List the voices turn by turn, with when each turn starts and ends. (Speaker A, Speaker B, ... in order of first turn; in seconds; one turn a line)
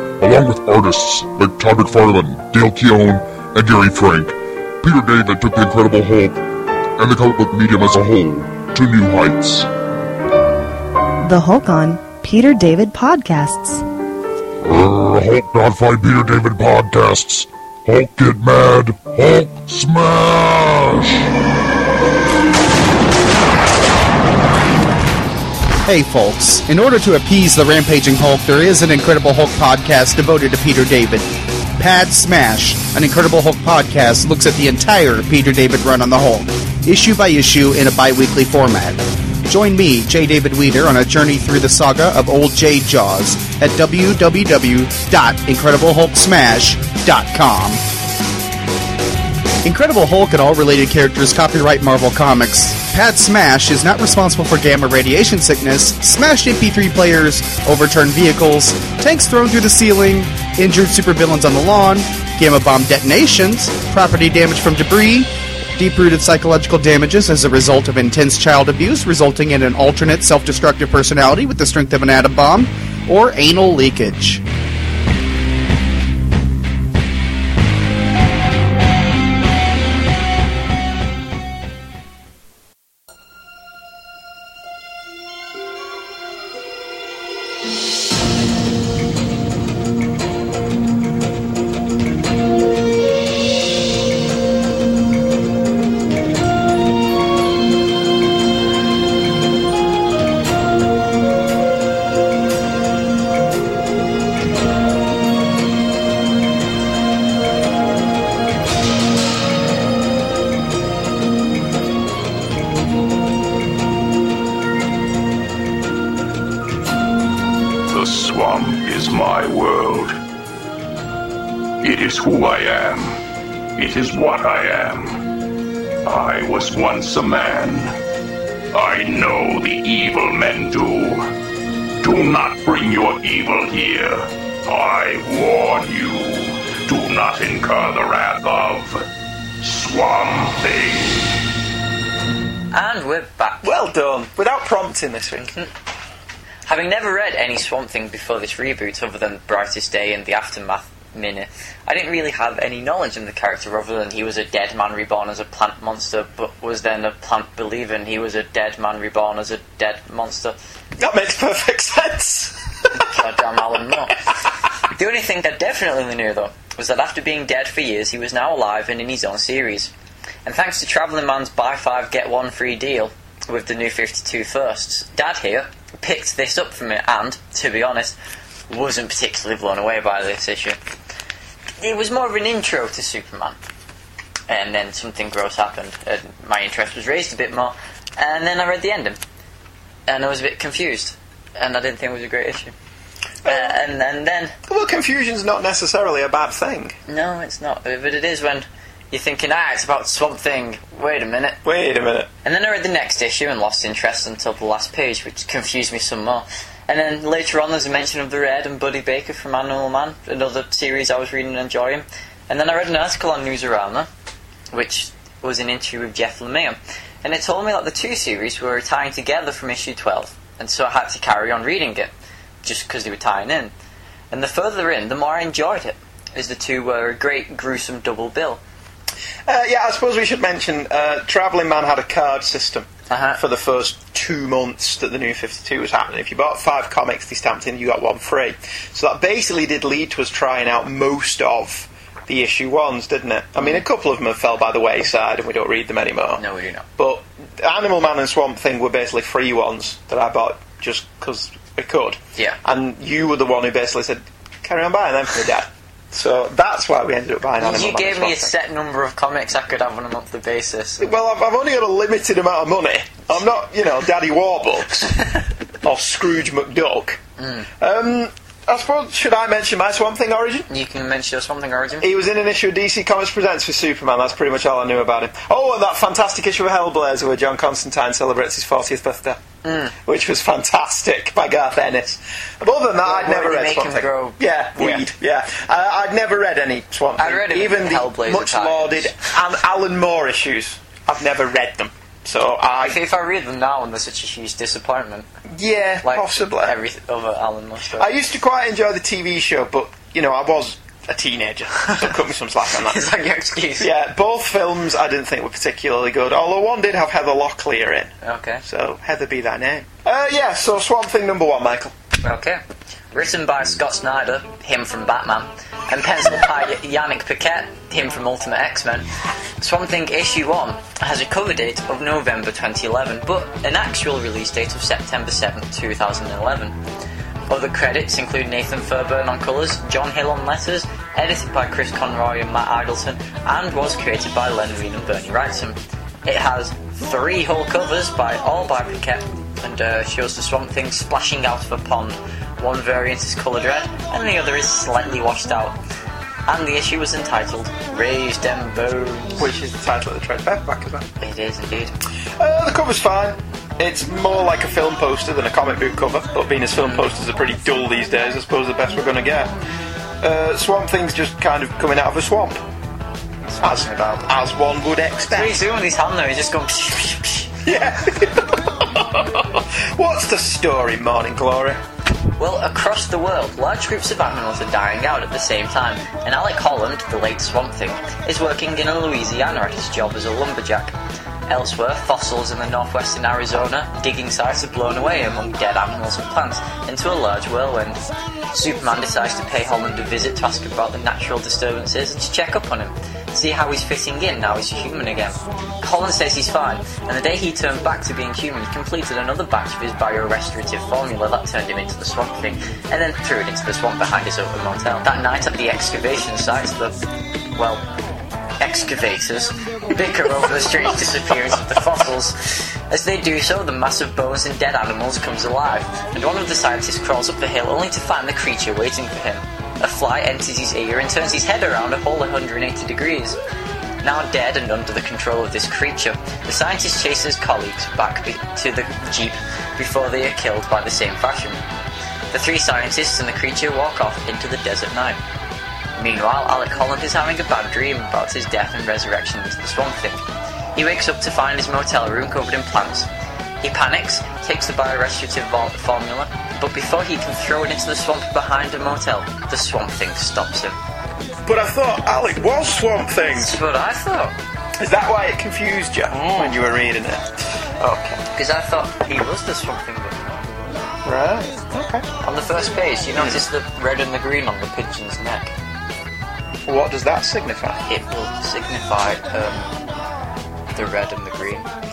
Speaker A: 0.2-9.7
Speaker B: 11.2-13.8
Speaker A: 14.6-21.3
Speaker C: 25.8-47.8
Speaker C: 49.6-74.4
Speaker D: 117.9-120.2
Speaker D: 121.8-123.2
Speaker D: 123.8-125.2
Speaker D: 126.0-128.0
Speaker D: 128.7-131.3
Speaker D: 132.0-139.1
Speaker D: 139.6-141.4
Speaker E: 142.7-143.7
Speaker F: 143.6-145.5
Speaker E: 145.4-145.7
Speaker E: 146.7-160.6
Speaker F: 161.0-163.1
Speaker E: 162.9-169.9
Speaker E: 170.5-178.2
Speaker E: 178.7-180.8
Speaker E: 181.8-183.6
Speaker E: 184.5-189.2
Speaker E: 190.1-192.7
Speaker F: 193.4-193.8
Speaker E: 193.4-194.6
Speaker F: 194.7-196.9
Speaker E: 197.1-201.6
Speaker F: 201.6-202.3
Speaker E: 202.4-214.1
Speaker E: 214.7-222.1
Speaker E: 222.6-223.7
Speaker E: 224.3-228.6
Speaker F: 229.5-246.4
Speaker E: 233.1-233.4
Speaker E: 246.4-246.8
Speaker F: 247.0-258.5
Speaker E: 257.6-261.1
Speaker F: 261.0-265.2
Speaker F: 265.8-267.2
Speaker E: 267.4-267.7
Speaker F: 267.8-270.7
Speaker E: 270.7-272.1
Speaker F: 272.0-279.4
Speaker E: 279.6-279.9
Speaker F: 280.0-293.0
Speaker E: 283.0-285.1
Speaker E: 287.2-289.1
Speaker E: 292.8-295.3
Speaker F: 295.5-296.7
Speaker E: 296.0-298.1
Speaker F: 297.9-303.1
Speaker E: 302.8-303.9
Speaker F: 303.8-311.9
Speaker E: 308.2-308.6
Speaker E: 312.2-312.6
Speaker E: 313.1-319.1
Speaker E: 319.6-326.8
Speaker E: 327.5-345.8
Speaker E: 346.5-349.5
Speaker F: 349.4-351.1
Speaker E: 351.2-351.9
Speaker F: 352.4-359.5
Speaker E: 356.8-357.1
Speaker F: 360.2-362.6
Speaker E: 363.5-364.3
Speaker F: 363.6-365.6
Speaker E: 365.2-367.6
Speaker F: 367.6-371.8
Speaker E: 372.4-380.9
Speaker E: 381.5-388.0
Speaker E: 388.5-407.0
Speaker E: 407.6-407.8
Speaker E: 408.6-423.4
Speaker E: 424.0-431.6
Speaker E: 432.3-435.2
Speaker E: 436.0-440.2
Speaker E: 440.8-443.1
Speaker E: 443.6-450.8
Speaker F: 451.5-453.6
Speaker E: 453.3-454.3
Speaker F: 454.8-457.3
Speaker E: 456.1-456.6
Speaker E: 457.8-460.8
Speaker F: 457.8-458.1
Speaker F: 461.1-462.1
Speaker E: 462.2-465.5
Speaker F: 463.1-463.4
Speaker F: 466.6-467.8
Speaker E: 467.9-469.8
Speaker E: 470.7-471.7